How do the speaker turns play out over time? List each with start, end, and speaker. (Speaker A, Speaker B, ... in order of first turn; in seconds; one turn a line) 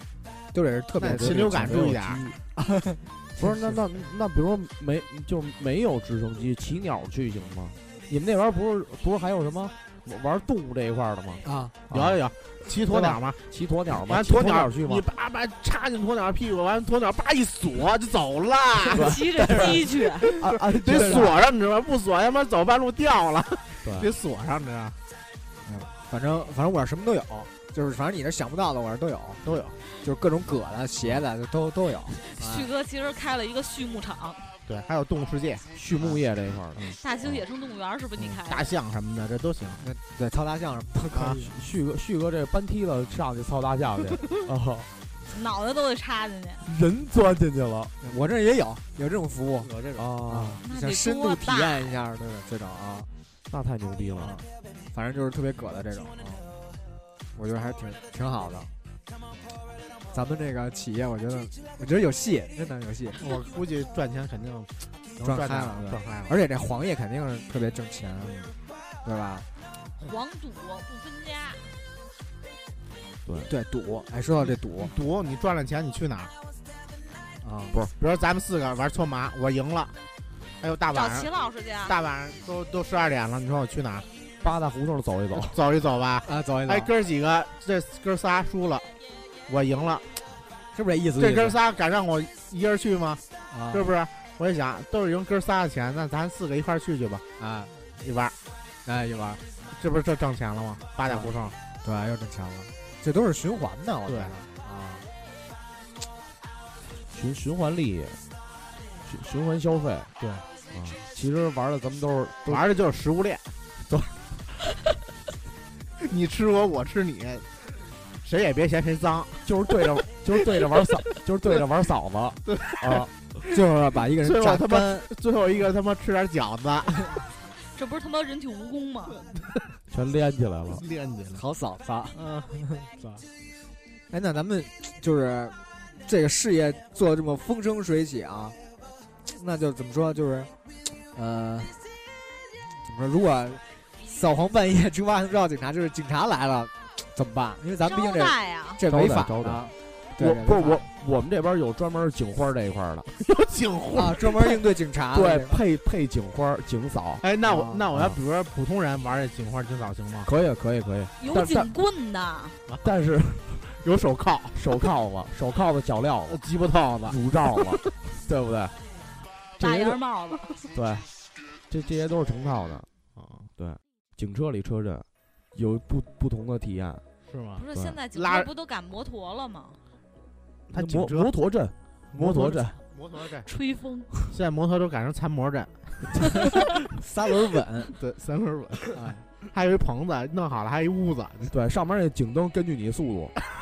Speaker A: 0.5-1.9
Speaker B: 1.0-2.2
Speaker C: 1.0-2.4
Speaker A: 2.5-3.8
Speaker C: 3.4-12.2
Speaker A: 11.4-11.7
Speaker B: 11.9-13.4
Speaker C: 12.8-15.1
Speaker B: 13.9-25.0
Speaker D: 18.9-20.3
Speaker C: 18.9-21.4
Speaker A: 20.8-21.3
Speaker C: 23.8-24.1
Speaker A: 25.6-29.4
Speaker B: 29.4-29.8
Speaker A: 30.0-32.7
Speaker D: 32.3-34.5
Speaker B: 34.7-36.2
Speaker C: 35.7-37.4
Speaker D: 37.0-38.7
Speaker B: 38.2-39.8
Speaker A: 39.8-41.5
Speaker B: 41.1-41.4
Speaker C: 41.3-44.9
Speaker D: 45.3-46.7
Speaker C: 46.6-47.9
Speaker A: 48.0-49.7
Speaker B: 49.6-50.0
Speaker C: 50.0-50.6
Speaker A: 50.3-53.1
Speaker D: 50.6-51.9
Speaker C: 53.5-54.3
Speaker A: 54.2-56.5
Speaker A: 57.3-58.7
Speaker A: 60.1-63.2
Speaker B: 63.2-66.3
Speaker A: 65.2-68.5
Speaker A: 69.0-69.5
Speaker D: 70.0-71.7
Speaker C: 73.2-73.5
Speaker A: 73.5-74.9
Speaker B: 74.5-76.3
Speaker A: 77.4-77.8
Speaker B: 78.0-79.9
Speaker B: 80.6-81.3
Speaker D: 80.9-82.0
Speaker B: 81.8-84.0
Speaker C: 84.4-85.6
Speaker B: 85.3-88.9
Speaker A: 86.2-86.9
Speaker B: 89.5-90.1
Speaker A: 90.7-91.6
Speaker B: 91.2-97.2
Speaker A: 93.5-93.9
Speaker A: 97.4-97.7
Speaker B: 98.0-98.3
Speaker A: 98.8-99.4
Speaker B: 99.7-101.5
Speaker A: 101.0-105.0
Speaker B: 104.1-104.3
Speaker C: 107.1-108.2
Speaker C: 109.0-110.1
Speaker B: 110.2-110.4
Speaker C: 110.7-112.7
Speaker B: 112.5-113.5
Speaker C: 113.9-114.1
Speaker B: 116.0-117.5
Speaker B: 118.2-119.4
Speaker C: 119.4-123.1
Speaker B: 122.5-123.1
Speaker A: 123.5-125.1
Speaker B: 124.2-127.1
Speaker D: 127.7-129.2
Speaker C: 129.9-130.8
Speaker B: 130.7-131.4
Speaker A: 131.3-133.2
Speaker B: 132.1-132.5
Speaker A: 134.1-138.6
Speaker A: 139.3-140.5
Speaker A: 141.1-141.8
Speaker A: 142.8-150.8
Speaker D: 147.8-148.8
Speaker C: 148.9-153.1
Speaker B: 153.2-154.3
Speaker A: 153.9-155.6
Speaker C: 155.1-157.2
Speaker B: 157.2-160.3
Speaker A: 157.4-157.8
Speaker C: 157.9-158.2
Speaker C: 160.2-161.7
Speaker D: 161.2-162.6
Speaker C: 162.8-163.7
Speaker B: 163.8-164.6
Speaker C: 164.5-166.4
Speaker B: 166.2-167.8
Speaker C: 167.1-168.8
Speaker C: 169.6-170.0
Speaker D: 169.6-170.4
Speaker C: 170.7-171.1
Speaker C: 171.7-172.9
Speaker B: 173.2-173.5
Speaker C: 173.6-177.0
Speaker B: 177.3-178.5
Speaker D: 177.6-179.8
Speaker C: 177.7-178.0
Speaker B: 180.7-181.3
Speaker C: 180.7-182.8
Speaker B: 182.1-183.5
Speaker D: 183.4-184.1
Speaker B: 184.3-186.3
Speaker A: 186.9-187.9
Speaker B: 188.0-191.5
Speaker A: 188.9-189.2
Speaker C: 191.5-193.3